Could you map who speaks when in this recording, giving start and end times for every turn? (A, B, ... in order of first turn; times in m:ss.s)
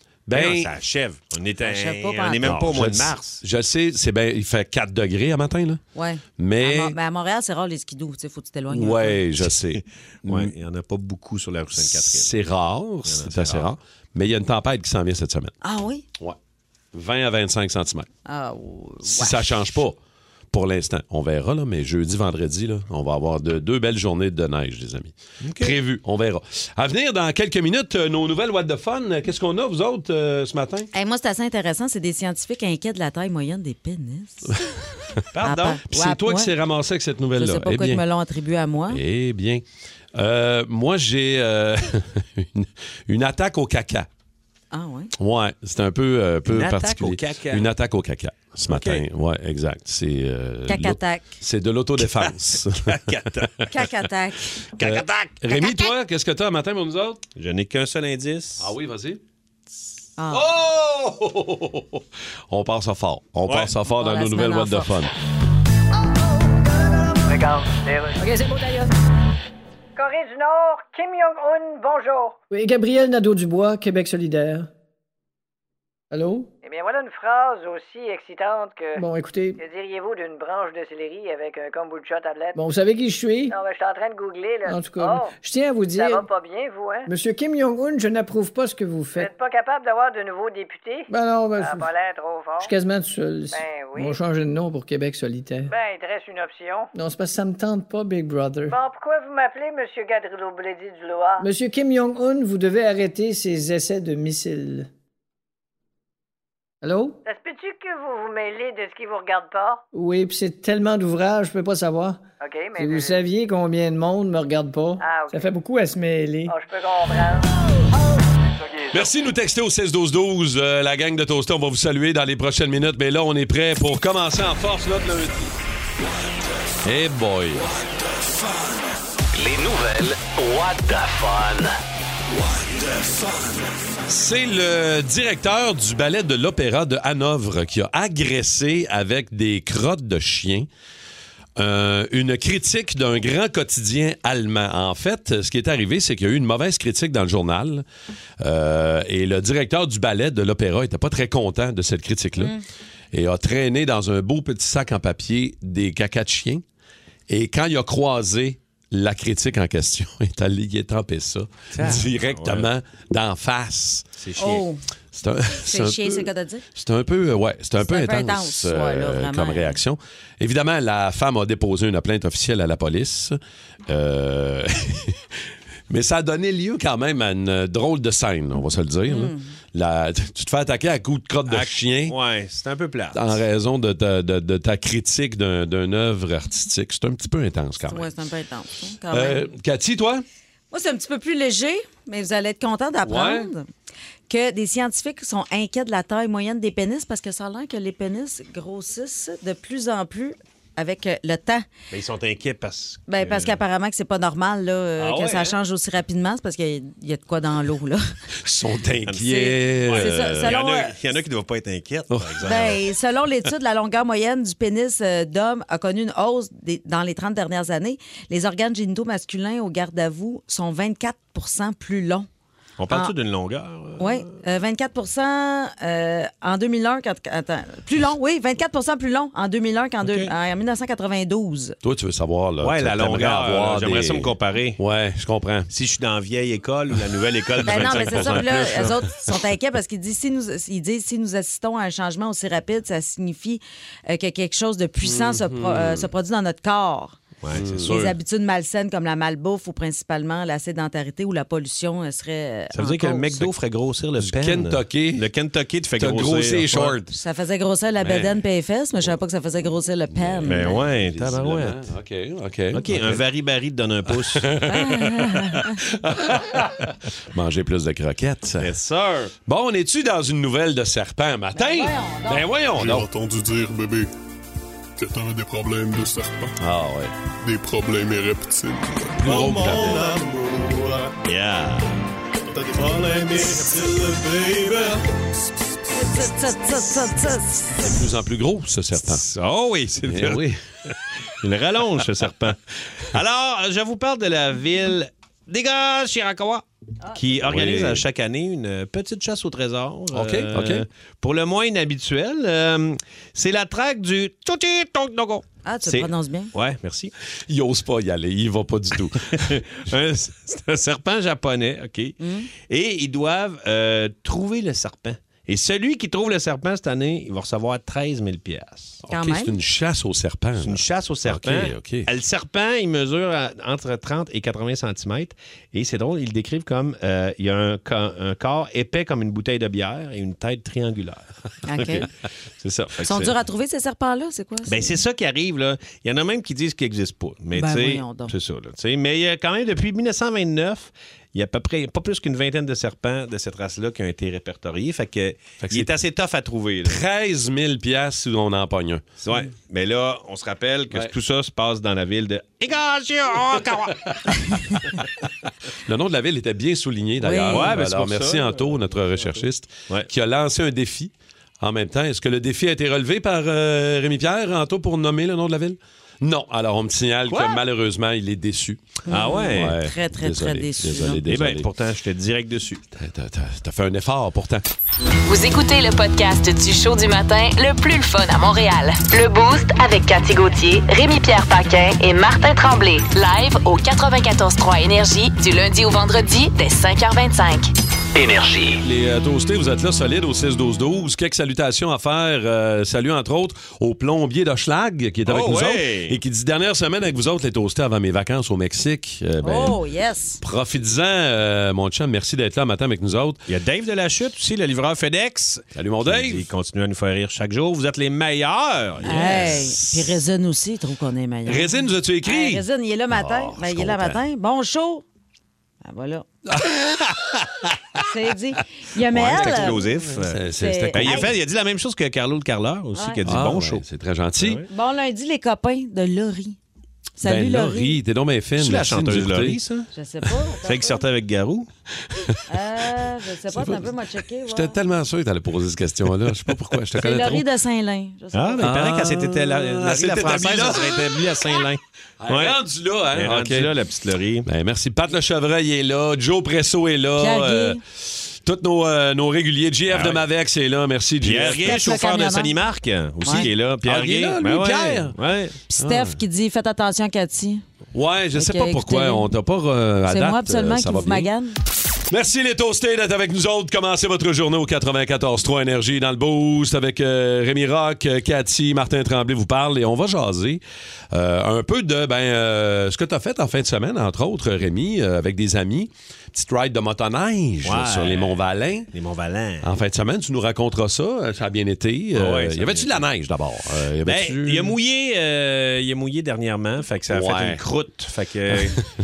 0:00.3-0:00.7 A
0:00.3-0:03.4 B
0:01.6-0:02.5 C
0:02.4-0:05.8 A
0:05.9-0:09.2 C
0:06.4-0:06.9 A
0:08.7-0:10.5 A
0:10.2-0:12.4 B
0:11.8-0:15.5 A
0:13.0-0:13.7 B
0:15.6-0:16.0 C
0:16.9-0:18.1 A
0:18.2-0:19.8 C
0:19.0-0:20.0 A
0:20.5-0:30.9 A
0:25.4-0:25.8 B
0:30.9-0:34.6 C
0:35.3-0:35.8 B
0:35.4-0:36.5 C
0:35.9-0:38.0 A
0:37.4-0:39.0 C
0:38.9-0:39.6 A
0:40.1-0:44.1 A
0:44.7-0:45.1 C
0:45.2-0:53.0 A
0:46.5-0:47.7 B
0:48.6-0:49.0 B
0:50.7-0:51.4 C
0:52.0-0:52.3 B
0:52.9-0:53.7 B
0:53.7-0:54.5 C
0:54.8-0:55.4 B
0:54.8-0:57.2 A
0:55.5-0:55.9 C
0:57.4-0:58.7 B
0:58.6-0:59.2 A
1:00.2-1:00.4 C
1:00.3-1:05.1 A
1:03.5-1:03.7 B
1:03.9-1:05.0 C
1:07.2-1:08.2 D
1:08.2-1:08.9 E
1:10.0-1:12.4 D
1:12.5-1:14.7 E
1:16.1-1:16.5 E
1:16.6-1:19.0 D
1:19.0-1:19.6 E
1:19.6-1:22.6 D
1:22.6-1:23.6 E
1:23.5-1:25.4 D
1:24.6-1:26.2 E
1:25.9-1:27.1 D
1:27.1-1:29.3 E
1:29.2-1:32.7 D
1:31.1-1:31.9 E
1:32.6-1:35.7 E
1:33.5-1:34.2 D
1:35.7-1:36.9 D
1:36.9-1:38.8 E
1:38.7-1:41.5 D
1:41.4-1:44.9 E
1:46.8-1:47.2 E
1:47.2-1:49.8 D
1:49.9-1:52.2 E
1:52.4-1:53.2 D
1:52.8-1:56.5 E
1:55.0-1:55.5 D
1:56.5-1:57.5 D
1:58.9-2:05.5 A
2:06.8-2:07.7 A
2:09.3-2:11.7 F
2:14.1-2:20.7 A
2:21.6-2:27.8 A
2:28.4-2:32.5 A
2:33.1-2:36.6 A
2:37.3-2:44.0 A
2:41.7-2:42.7 B
2:44.2-2:44.6 B
2:44.4-2:44.8 C
2:45.1-2:55.2 A
2:45.6-2:46.6 C
2:47.8-2:49.8 C
2:55.9-3:02.1 A
2:59.1-2:59.4 C
3:01.5-3:03.4 B
3:03.1-3:08.1 A
3:07.8-3:09.4 C
3:09.1-3:10.2 A
3:10.7-3:13.7 C
3:13.0-3:13.5 A
3:14.3-3:21.7 C
3:21.9-3:23.6 B
3:23.1-3:28.0 C
3:25.0-3:25.6 B
3:28.4-3:30.5 A
3:29.0-3:32.8 B
3:29.2-3:30.9 C
3:32.1-3:32.4 A
3:32.4-3:42.3 C
3:42.8-3:44.3 B
3:44.0-3:51.8 C
3:50.0-3:50.3 B
3:51.8-3:55.7 A
3:52.6-3:54.8 B
3:55.7-3:59.0 B
3:57.6-4:07.2 C
3:57.7-3:58.9 A
4:05.0-4:06.1 A
4:07.4-4:08.1 B
4:07.5-4:08.0 A
4:07.8-4:13.5 C
4:12.7-4:17.0 B
4:14.2-4:15.2 A
4:16.0-4:17.1 A
4:17.1-4:20.8 C
4:20.1-4:23.2 A
4:20.4-4:21.8 B
4:22.7-4:24.5 B
4:24.2-4:28.8 A
4:24.7-4:25.8 C
4:28.6-4:29.3 B
4:29.4-4:33.1 A
4:31.5-4:32.4 C
4:32.7-4:34.1 G
4:35.0-4:36.6 G
4:36.6-4:37.1 A
4:37.4-4:41.1 G
4:39.2-4:40.1 A
4:41.2-4:42.0 B
4:42.5-4:44.0 G
4:42.8-4:45.0 B
4:45.9-4:47.9 C
4:47.8-4:49.2 A
4:49.0-5:07.1 B
4:50.0-4:50.6 A
4:57.0-4:57.3 C
4:57.4-4:58.0 A
5:00.1-5:00.8 A
5:05.6-5:06.5 C
5:07.5-5:09.5 A
5:09.3-5:19.0 B
5:12.2-5:12.5 C
5:19.0-5:22.1 A
5:19.1-5:19.5 C
5:20.6-5:32.1 B
5:31.6-5:32.1 C
5:32.6-5:33.3 B
5:33.0-5:35.0 C
5:34.7-5:47.0 B
5:37.5-5:38.3 C
5:45.6-5:45.9 A
5:46.8-5:49.1 A
5:49.2-5:54.2 B
5:55.9-6:08.8 A
5:57.2-5:57.8 C
5:57.4-6:00.1 B
6:07.3-6:07.6 B
6:09.1-6:11.2 C
6:09.1-6:09.9 B
6:09.5-6:11.7 A
6:11.2-6:12.8 B
6:12.9-6:14.6 A
6:15.3-6:27.7 H
6:28.1-6:28.8 F
6:28.8-6:39.8 A
6:35.2-6:36.2 B
6:39.4-6:40.4 C
6:40.4-6:43.4 A
6:43.5-6:49.7 B
6:45.7-6:46.5 A
6:49.0-6:50.2 A
6:49.0-6:55.0 C
6:51.4-6:54.2 A
6:55.8-6:56.2 C
6:56.4-6:56.7 A
6:58.0-6:59.8 C
6:59.1-7:01.3 A
6:59.1-7:00.4 B
7:00.6-7:01.3 C
7:00.9-7:03.8 B
7:02.9-7:03.2 C
7:03.2-7:04.6 A
7:04.4-7:04.6 B
7:04.7-7:06.6 C
7:07.2-7:08.0 C
7:07.2-7:09.6 A
7:08.6-7:09.9 B
7:09.9-7:11.0 C
7:10.6-7:11.7 B
7:12.0-7:12.4 A
7:12.5-7:14.8 C
7:13.5-7:13.9 A
7:14.5-7:17.4 A
7:17.0-7:18.7 C
7:18.3-7:22.6 B
7:18.6-7:21.1 A
7:22.2-7:23.7 A
7:23.1-7:24.5 B
7:24.4-7:31.8 A
7:27.2-7:27.8 C
7:29.9-7:30.2 B
7:31.2-7:35.6 B
7:31.6-7:32.5 C
7:33.2-7:33.5 C
7:33.3-7:35.2 A
7:35.7-7:37.6 C
7:35.8-7:36.2 A
7:37.9-7:41.3 A
7:38.3-7:39.3 C
7:40.0-7:41.6 C
7:42.1-7:58.9 A
7:57.6-7:58.4 B
7:58.9-7:59.7 B
7:59.6-8:04.7 A
8:02.1-8:03.0 B
8:04.0-8:08.8 B
8:07.1-8:07.6 A
8:08.5-8:08.8 A